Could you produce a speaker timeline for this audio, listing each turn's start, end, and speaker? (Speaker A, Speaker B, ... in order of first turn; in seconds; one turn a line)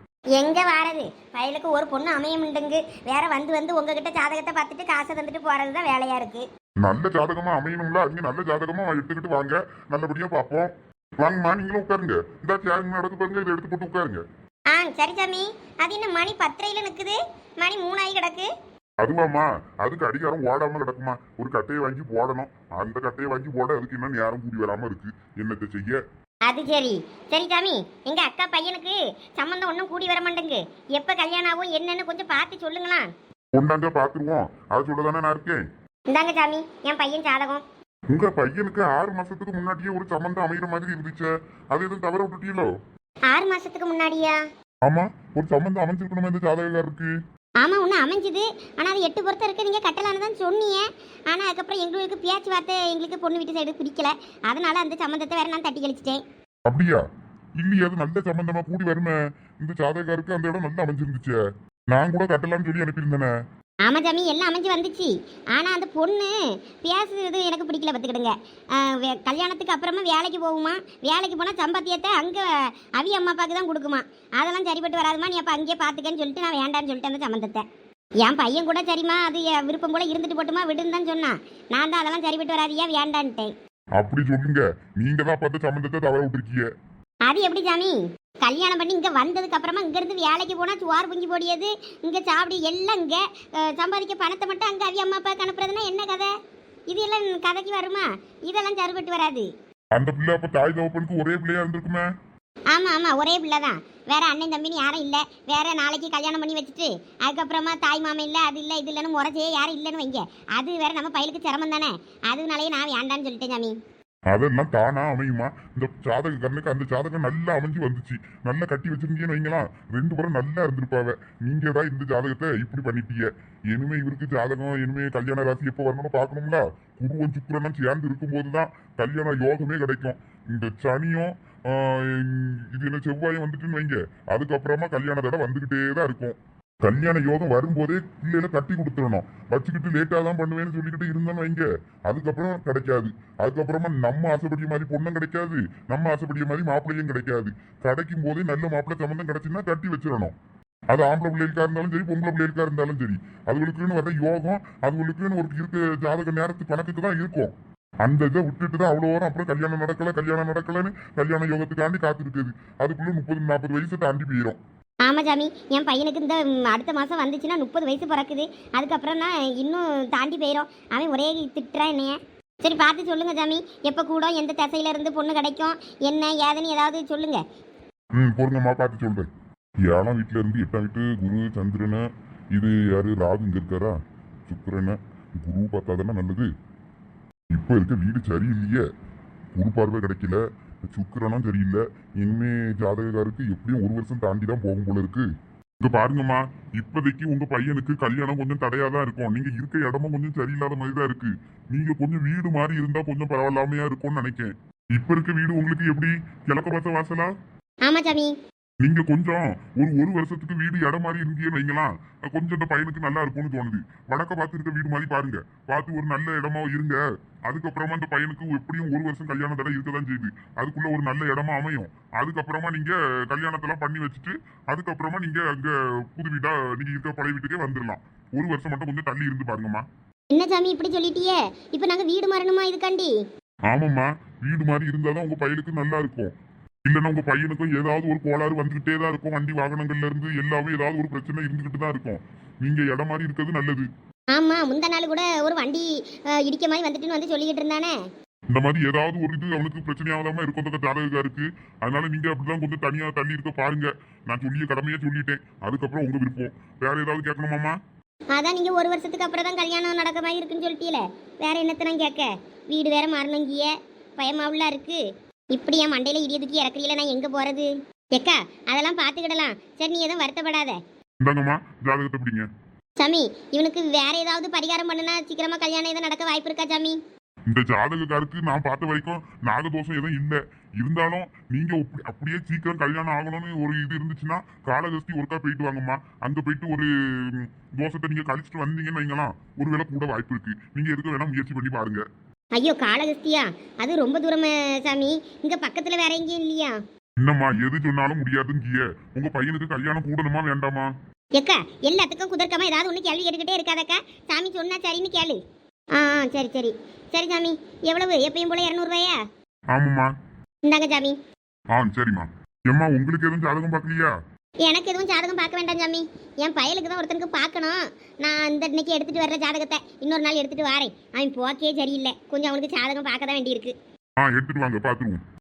Speaker A: 0.3-6.5
Speaker B: 6.8-14.2
Speaker A: 14.7-18.5
Speaker B: 19.0-26.0
Speaker A: 26.4-33.1
Speaker B: 33.5-35.6
Speaker A: 36.1-37.6
Speaker B: 38.1-42.7
Speaker A: 43.3-44.4
Speaker B: 44.8-47.1
Speaker A: 47.6-56.2
Speaker B: 56.7-57.0
Speaker B: 57.6-61.4
Speaker B: 61.9-63.3
Speaker A: 63.8-77.6
Speaker A: 78.2-83.5
Speaker B: 84.0-86.6
Speaker A: 87.2-96.3
Speaker A: 96.9-99.5
Speaker B: 99.9-102.1
Speaker A: 102.7-113.7
Speaker B: 114.3-150.3
Speaker B: 150.9-164.6
Speaker A: 165.0-177.4
Speaker B: 178.1-179.3
Speaker B: 179.9-183.9
Speaker B: 184.5-186.5
Speaker B: 187.5-188.8
Speaker B: 189.5-195.3
Speaker B: 195.8-207.3
Speaker A: 207.8-208.3
Speaker B: 208.8-229.8
Speaker A: 230.3-233.1
Speaker B: 233.7-243.9
Speaker A: 244.3-247.9
Speaker B: 248.5-257.8
Speaker A: 258.3-265.0
Speaker A: 265.5-270.8
Speaker B: 271.2-272.5
Speaker A: 273.0-277.0
Speaker B: 277.5-292.0
Speaker A: 292.5-296.8
Speaker B: 297.2-300.9
Speaker A: 301.4-305.4
Speaker A: 305.9-309.2
Speaker B: 309.7-310.1
Speaker A: 310.6-311.2
Speaker B: 311.7-314.1
Speaker A: 314.6-323.7
Speaker B: 324.2-325.2